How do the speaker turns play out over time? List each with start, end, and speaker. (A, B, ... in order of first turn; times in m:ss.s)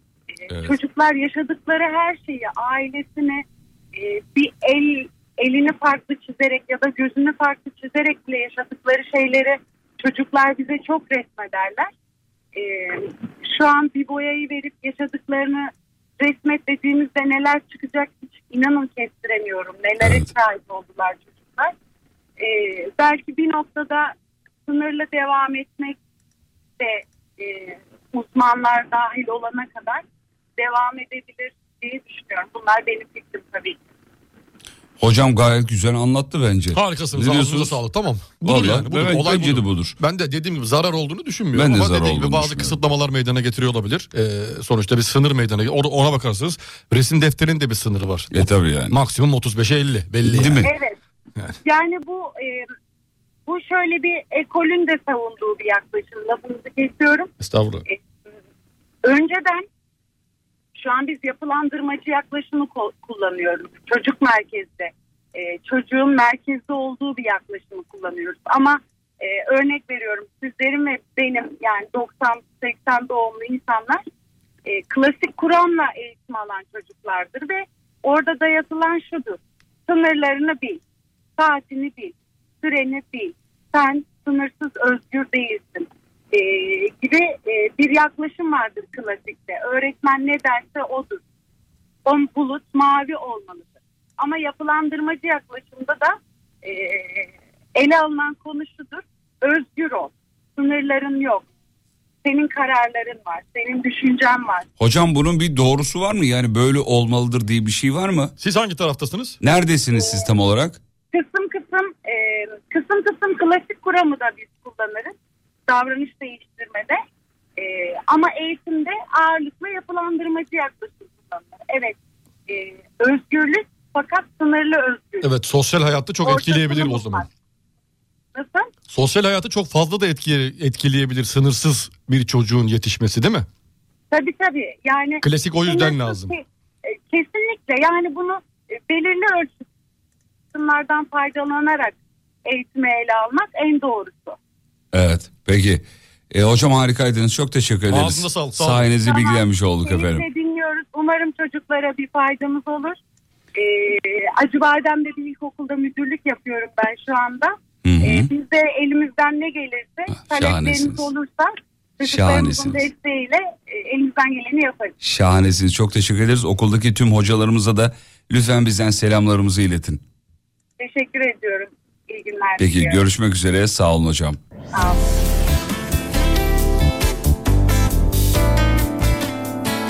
0:00.5-0:11.9 A
0:12.5-0:21.7 A
0:22.4-0:24.1 A
0:24.6-0:26.0 A
0:26.8-0:30.0 A
0:30.6-0:33.8 A
0:35.0-0:37.8 B
0:36.7-0:50.6 C
0:38.4-0:40.0 B
0:41.5-0:42.8 B
0:48.3-0:49.0 B
0:50.2-0:50.7 B
0:50.6-0:51.0 A
0:51.6-0:52.7 A
0:53.4-0:57.3 A
0:57.4-0:57.8 C
0:59.0-0:59.6 A
1:00.7-1:14.0 A
1:14.6-1:20.8 A
1:21.4-1:31.2 A
1:32.0-1:41.5 A
1:42.2-1:44.7 A
1:44.8-1:48.3 B
1:48.4-1:49.4 C
1:49.4-1:50.8 B
1:51.1-1:55.2 A
1:55.7-1:57.0 A
1:57.6-2:02.0 A
2:02.5-2:05.3 A
2:05.2-2:07.2 C
2:06.2-2:07.3 A
2:08.3-2:08.7 A
2:08.9-2:13.4 C
2:14.1-2:19.6 A
2:15.2-2:16.3 C
2:20.5-2:24.4 A
2:24.9-2:30.2 B
2:27.9-2:28.9 C
2:29.0-2:33.0 A
2:33.5-2:45.0 A
2:37.8-2:38.3 B
2:40.2-2:41.1 B
2:42.0-2:42.9 B
2:45.0-2:50.0 B
2:50.8-2:53.0 A
2:52.6-2:54.4 B
2:54.7-2:55.1 A